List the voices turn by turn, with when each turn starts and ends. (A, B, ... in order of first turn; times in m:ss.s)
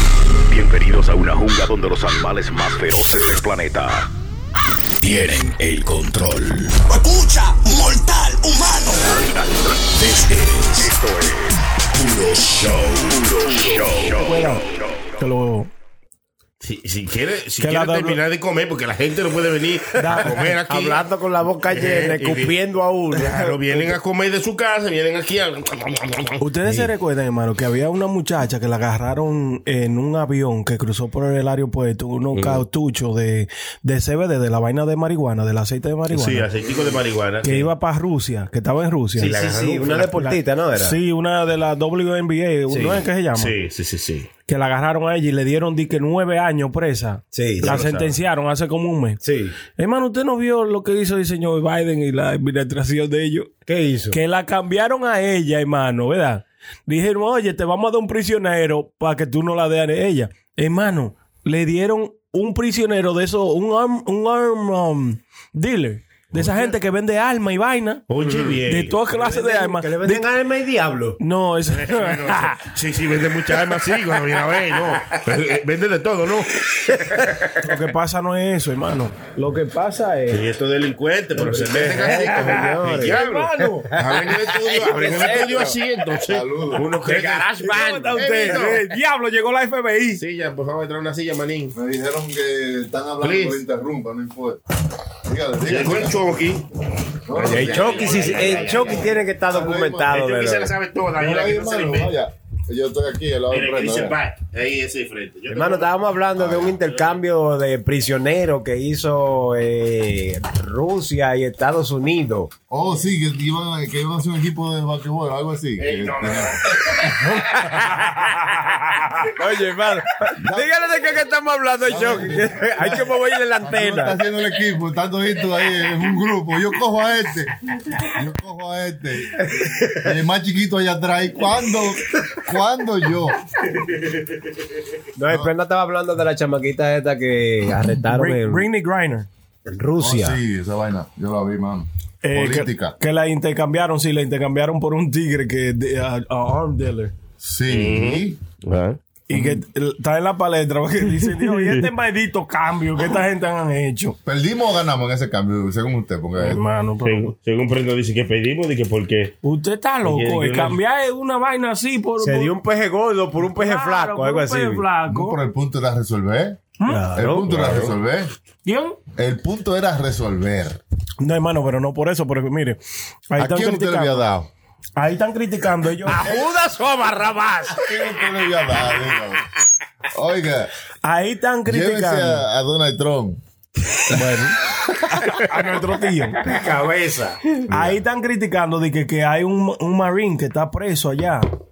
0:00.5-0:04.1 A
0:05.0-0:14.8 A
0:14.1-0:14.6 B
0:15.2-0:15.7 B
0:16.6-0:21.0 C
0:17.6-0:18.2 B
0:20.0-0:20.5 B
0:20.0-0:23.9 D
0:21.7-0:22.6 C
0:23.1-0:26.4 C
0:26.4-0:36.5 B
0:32.3-0:32.6 C
0:36.1-0:37.7 C
0:37.4-0:39.4 B
0:39.2-0:41.0 D
0:39.2-0:40.2 C
0:40.1-0:43.5 B
0:42.7-0:43.0 D
0:43.3-0:44.3 C
0:44.5-0:49.2 B
0:47.3-0:47.8 D
0:47.6-0:48.2 C
0:49.2-0:49.5 D
0:49.8-0:53.5 B
0:53.7-0:54.2 D
0:54.1-1:08.0 B
1:06.3-1:06.7 C
1:08.1-1:09.0 C
1:08.2-1:11.2 D
1:08.6-1:10.2 B
1:11.2-1:12.6 B
1:11.7-1:16.6 C
1:17.0-1:17.4 D
1:17.6-1:19.4 B
1:19.4-1:20.4 D
1:20.3-1:26.4 C
1:21.4-1:25.8 D
1:21.8-1:23.0 E
1:22.9-1:23.9 B
1:26.3-1:27.2 E
1:26.7-1:28.7 D
1:27.0-1:28.8 C
1:27.6-1:30.2 B
1:30.2-1:31.7 C
1:31.7-1:34.6 E
1:33.2-1:33.6 C
1:35.2-1:36.2 E
1:35.6-1:36.6 C
1:37.2-1:40.1 E
1:37.3-1:39.2 C
1:37.4-1:40.7 D
1:40.1-1:42.2 C
1:41.2-1:44.2 E
1:43.5-1:47.2 C
1:45.5-1:52.5 D
1:52.7-1:57.3 E
1:55.8-1:56.9 C
1:57.2-1:58.5 D
1:59.2-2:04.2 D
2:00.4-2:00.7 E
2:01.8-2:13.4 E
2:09.4-2:10.1 D
2:15.2-2:18.6 D
2:18.1-2:19.3 B
2:19.6-2:20.4 D
2:20.0-2:23.0 E
2:22.2-2:27.1 B
2:27.4-2:28.4 E
2:27.7-2:29.0 C
2:29.3-2:34.2 B
2:29.3-2:29.6 E
2:34.2-2:36.6 E
2:36.4-2:37.3 B
2:37.0-2:39.3 C
2:39.4-2:42.5 B
2:40.0-2:40.8 C
2:42.2-2:44.8 D
2:43.5-2:45.4 B
2:45.1-2:48.3 E
2:46.8-2:47.2 B
2:46.9-2:47.8 D
2:47.5-2:47.9 C
2:48.6-2:49.0 B
2:49.2-2:50.8 E
2:51.2-2:52.8 B
2:53.3-2:54.2 B
2:53.4-2:54.5 E
2:55.0-2:56.4 B
2:56.0-2:57.9 D
2:57.8-2:59.4 E
3:00.1-3:00.7 E
3:01.0-3:02.4 B
3:01.7-3:03.4 E
3:04.1-3:04.6 B
3:05.2-3:06.4 B
3:06.4-3:07.4 D
3:07.7-3:08.0 E
3:07.7-3:11.4 B